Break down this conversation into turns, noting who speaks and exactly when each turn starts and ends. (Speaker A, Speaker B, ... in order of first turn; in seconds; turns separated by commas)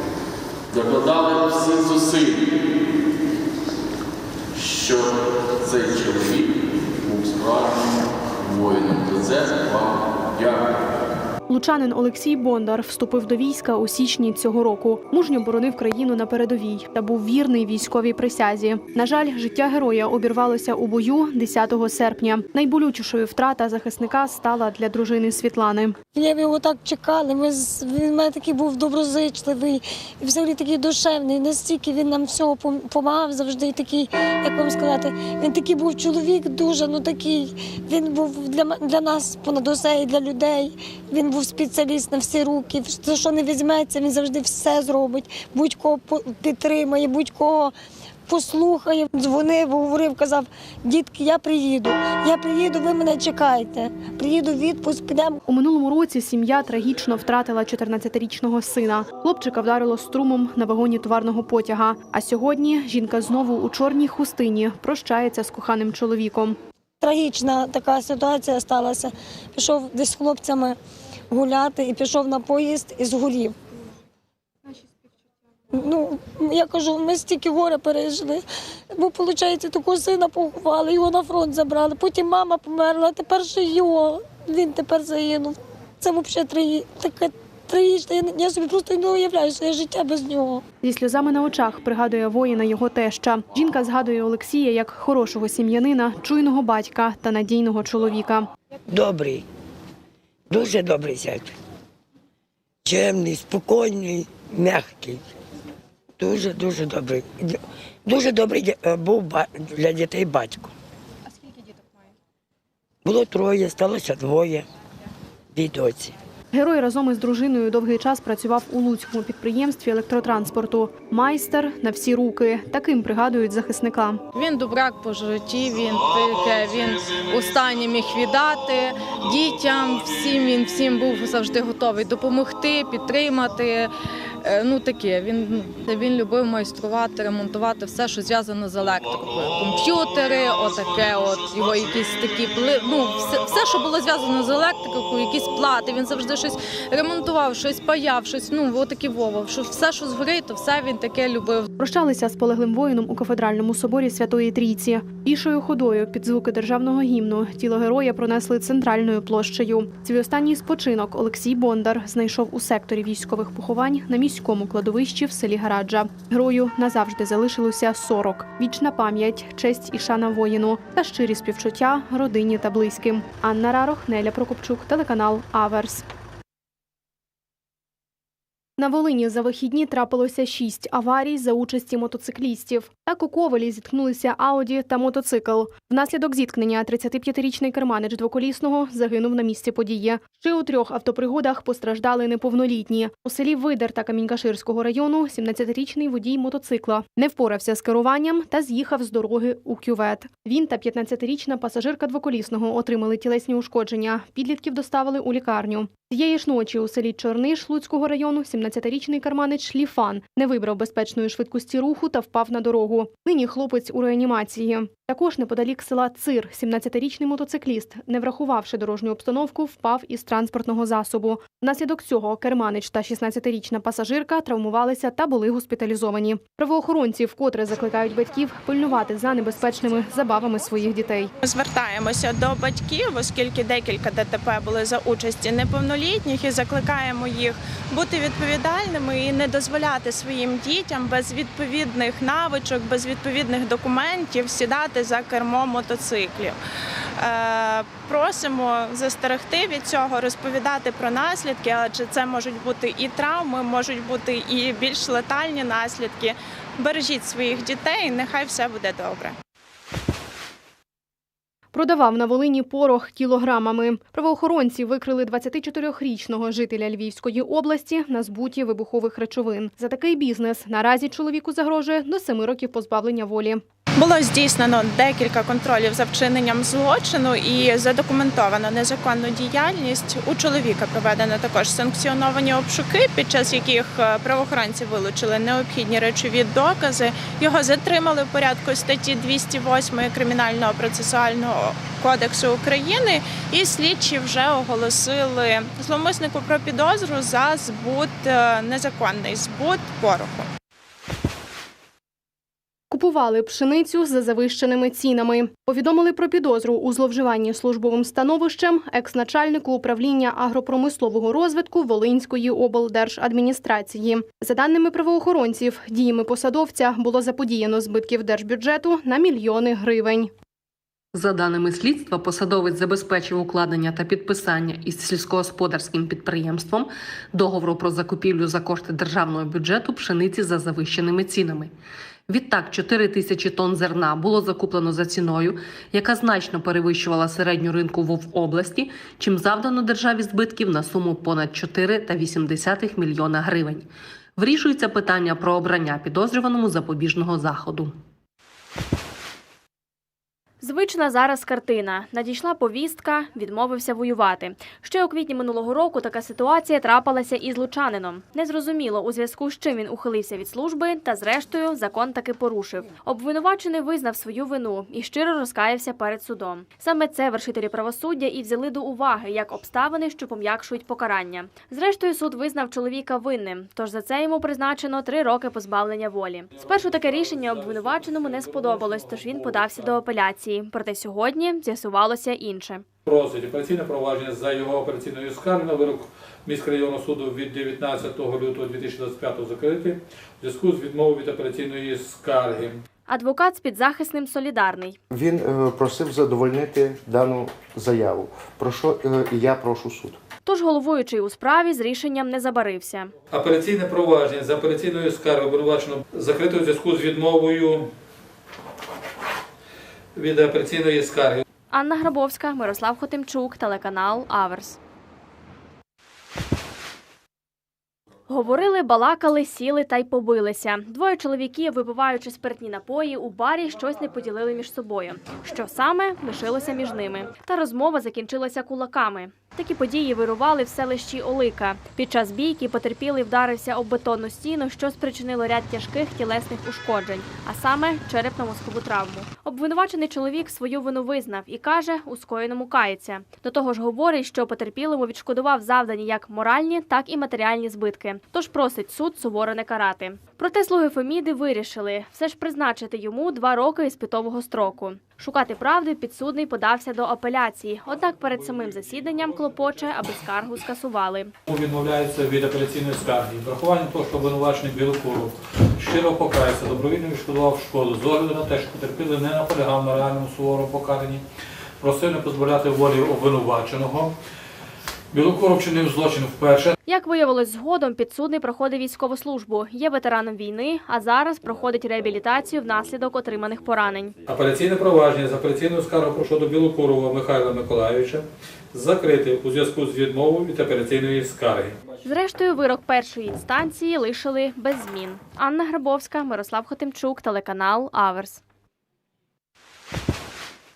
Speaker A: 0.7-2.5, Speaker A: 4.5-10.7, Speaker B: 11.5-26.0, Speaker C: 26.1-47.7, Speaker C: 48.3-55.4, Speaker B: 55.5-66.6, Speaker C: 67.0-70.8, Speaker C: 71.3-73.5, Speaker C: 75.7-78.4, Speaker C: 79.0-90.6, Speaker B: 90.8-98.5, Speaker D: 98.9-99.4, Speaker D: 100.5-101.5, Speaker D: 102.8-105.2, Speaker D: 106.2-110.7, Speaker D: 113.0-114.7, Speaker D: 115.5-116.2, Speaker B: 116.5-124.2, Speaker E: 124.3-126.8, Speaker E: 127.6-130.3, Speaker E: 130.9-133.9, Speaker E: 134.5-136.5, Speaker E: 137.2-139.0, Speaker E: 139.8-146.4, Speaker E: 146.9-151.5, Speaker B: 151.8-176.1, Speaker B: 178.8-231.3, Speaker F: 231.4-246.6, Speaker F: 247.2-259.3, Speaker B: 261.7-273.6, Speaker F: 273.9-300.5, Speaker B: 302.9-320.3, Speaker G: 321.1-331.7, Speaker G: 332.3-347.9, Speaker H: 350.6-382.8, Speaker I: 376.7-379.8, Speaker I: 383.1-392.8, Speaker H: 393.1-395.0, Speaker J: 395.1-400.2, Speaker H: 400.4-403.1, Speaker I: 403.3-407.9, Speaker I: 410.1-411.4, Speaker H: 411.7-414.8, Speaker H: 418.3-461.3, Speaker I: 461.5-471.2, Speaker I: 471.8-474.1, Speaker I: 475.1-476.7, Speaker H: 476.9-484.2, Speaker I: 484.3-491.8, Speaker H: 492.0-498.4